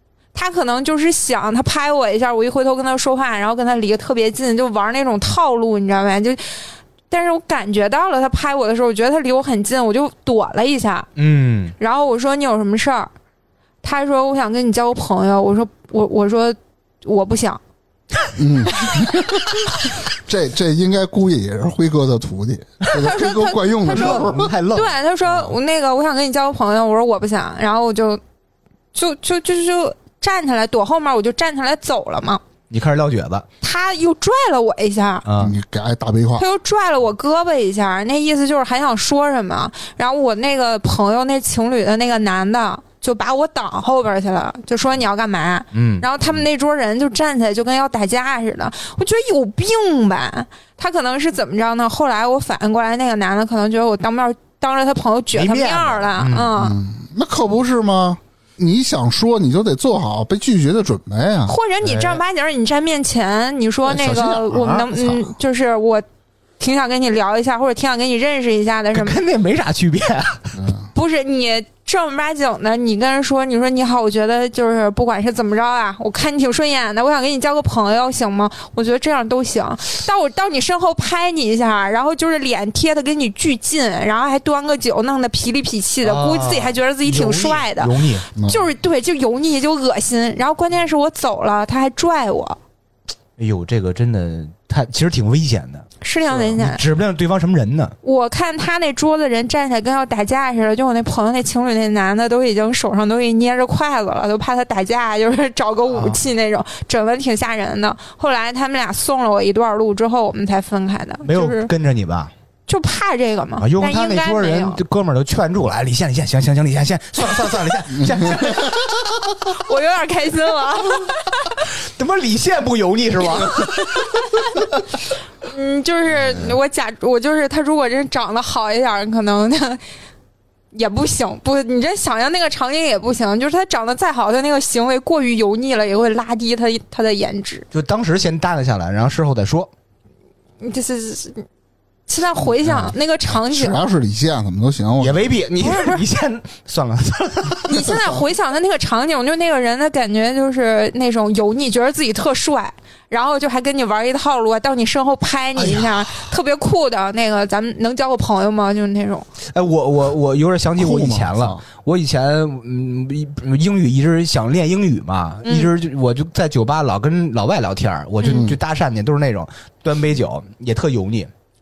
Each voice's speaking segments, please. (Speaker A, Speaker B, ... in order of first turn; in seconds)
Speaker A: 0.3-11.1, 11.8-13.1, 13.8-17.6, 22.9-28.2, 28.9-32.4, 33.6-35.3, 36.4-56.8, 61.5-66.0, 66.6-69.2, 70.9-92.6, 96.0-96.8, 98.0-111.7, 112.7-114.8, 119.5-121.7, 123.2-124.7, 125.4-129.8, 130.7-137.7, 140.6-141.5, 142.1-143.8, 145.6-146.1, 147.7-159.3, 165.4-165.7
Speaker B: 11.2-11.8, 23.9-25.5, 32.7-33.5, 35.3-35.5, 45.7-46.1, 55.3-56.5, 61.8-62.2, 68.9-70.5, 86.0-88.3, 93.4-98.0, 105.9-106.2, 111.2-112.3, 113.6-118.9, 121.6-124.6, 137.7-139.7, 145.0-147.8, 155.6-156.2, 159.4-171.3
Speaker C: 18.4-24.5, 35.4-36.5, 56.6-61.5, 63.9-65.3, 70.5-70.9, 88.4-88.7, 118.0-118.8, 142.4-145.3, 147.7-148.2, 160.8-161.6, 168.3-168.6